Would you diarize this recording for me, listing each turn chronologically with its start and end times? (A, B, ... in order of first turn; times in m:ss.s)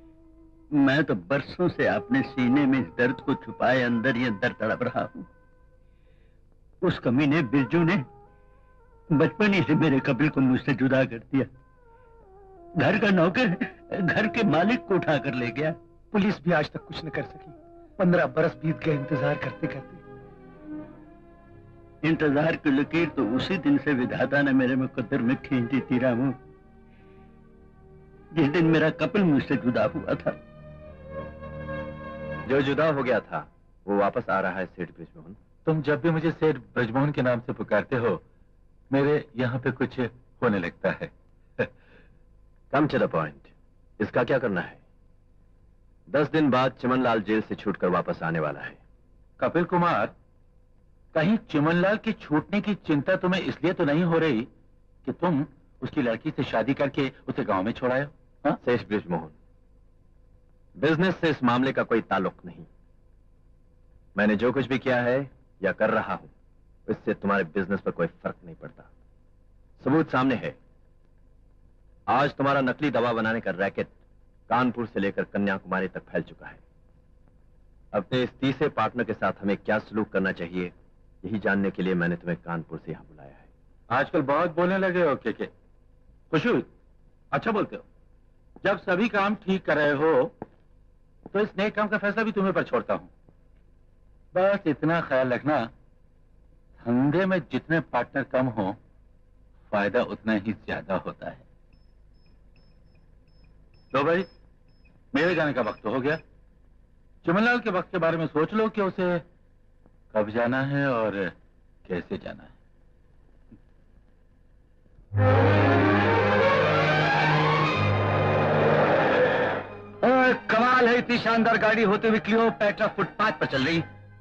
0:00.7-0:05.1 A
0:06.8-0:08.0 A
0:09.1-0:11.5 A
0:12.8-0:15.8 A
0:16.1-0:20.0 B
0:22.0-0:26.4 A
0:28.3-0:30.4 A
0:32.4-0:35.4 C
0:35.6-0:38.2 D
0:38.9-0:41.7 D
0:42.7-0:44.8 C
0:46.1-0:48.8 C
0:49.4-0:50.1 D
0:51.1-0:54.5 D
0:55.0-0:58.6 D
0:58.6-0:59.3 C
1:00.8-1:02.7 C
1:04.2-1:06.3 C
1:06.9-1:08.9 C
1:09.8-1:10.6 C
1:12.1-1:13.9 C
1:14.5-1:16.6 C
1:17.9-1:23.5 C
1:23.9-1:25.5 D
1:26.3-1:26.7 D
1:27.3-1:27.8 D
1:28.6-1:30.3 D
1:31.3-1:33.1 D
1:34.3-1:35.7 D
1:36.8-1:38.8 D
1:39.7-1:41.4 D
1:43.9-1:44.3 D
1:45.1-1:46.2 D
1:47.2-1:49.2 D
1:50.1-1:51.3 D
1:51.8-1:52.5 D
2:00.0-2:03.8 E